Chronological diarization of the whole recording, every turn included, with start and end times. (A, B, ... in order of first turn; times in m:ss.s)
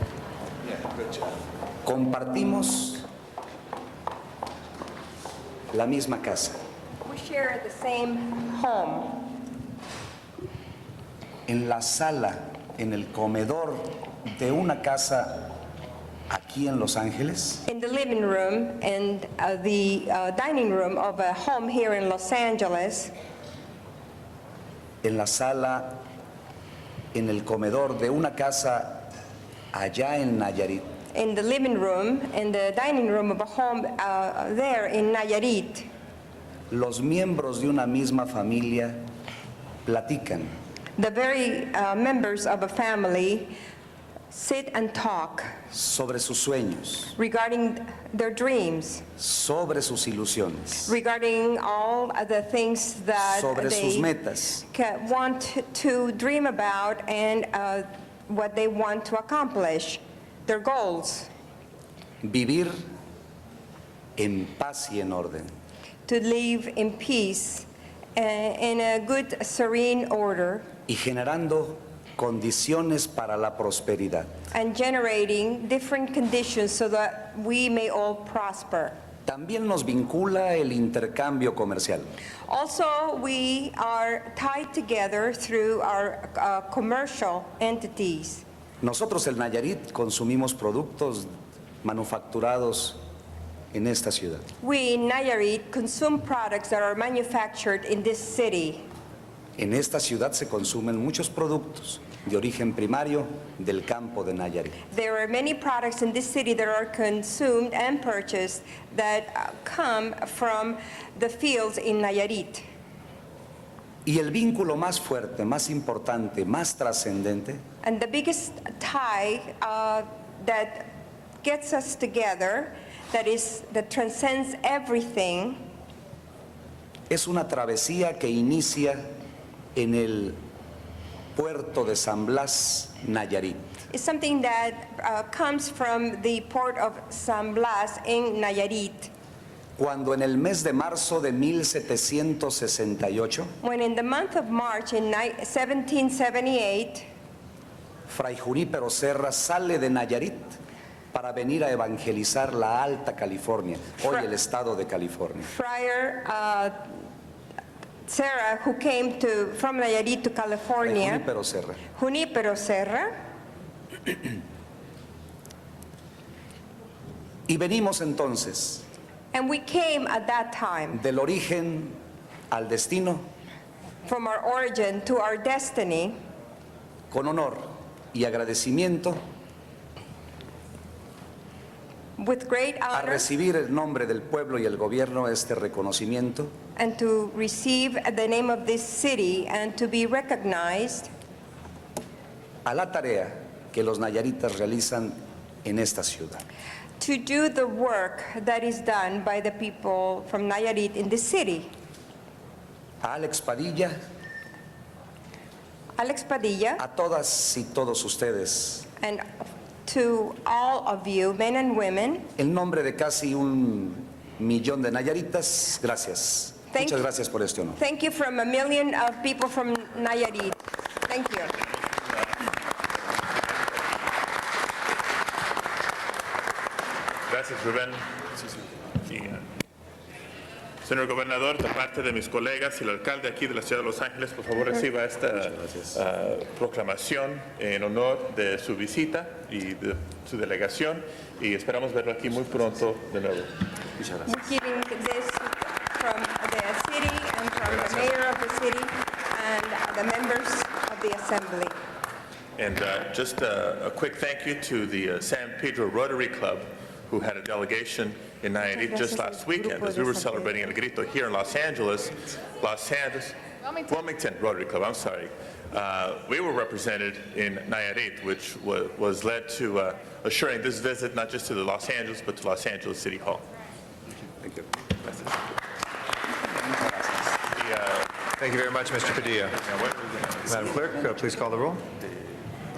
0:01.8-0:03.1 A
0:05.7-0:06.6 A
0:07.0-0:09.2 B
0:11.5-0:15.5 A
0:16.3-0:17.6 A
0:17.6-0:23.1 B
0:25.0-0:26.0 A
0:27.1-0:29.1 A
0:29.7-0:30.8 A
0:31.1-0:35.8 B
0:36.7-0:39.0 A
0:39.8-0:40.5 A
0:41.0-0:43.5 B
0:44.3-0:45.5 B
0:45.7-0:47.1 A
0:47.2-0:49.0 B
0:49.2-0:50.9 A
0:50.8-1:01.3 B
0:53.2-0:54.6 A
1:02.2-1:02.8 A
1:04.2-1:05.5 A
1:06.1-1:10.6 B
1:10.9-1:14.3 A
1:14.5-1:18.9 B
1:19.2-1:22.1 A
1:22.5-1:28.4 B
1:28.8-1:31.3 A
1:31.8-1:33.0 A
1:33.7-1:34.4 A
1:34.6-1:38.8 B
1:39.6-1:44.7 A
1:44.9-1:52.6 B
1:54.0-1:57.6 A
1:57.8-2:00.9 B
2:01.4-2:05.6 B
2:07.1-2:09.1 A
2:09.7-2:10.4 A
2:11.3-2:13.6 A
2:13.9-2:19.1 B
2:19.8-2:23.5 A
2:23.6-2:27.0 B
2:28.1-2:30.6 A
2:31.1-2:35.5 A
2:34.0-2:34.3 B
2:35.5-2:36.9 B
2:38.1-2:41.2 B
2:40.8-2:41.8 A
2:41.9-2:43.1 B
2:47.5-2:48.8 A
2:49.3-2:51.0 B
2:50.9-2:52.0 A
2:52.5-2:53.2 A
2:54.0-2:56.1 B
2:57.1-2:59.2 A
3:02.2-3:03.3 B
3:02.9-3:06.5 A
3:06.8-3:11.1 B
3:12.6-3:16.4 A
3:17.0-3:21.7 B
3:23.0-3:24.0 A
3:26.0-3:26.8 B
3:26.8-3:28.9 A
3:29.0-3:29.2 B
3:29.8-3:32.3 B
3:32.4-3:37.8 A
3:36.7-3:37.0 B
3:37.8-3:41.6 B
3:47.3-3:48.0 C
3:49.0-3:49.4 C
3:50.8-4:03.5 C
4:04.2-4:11.7 B
4:12.6-4:23.3 C
4:18.8-4:20.7 B
4:23.9-4:33.4 C
4:37.5-4:38.1 C
4:38.4-4:41.8 D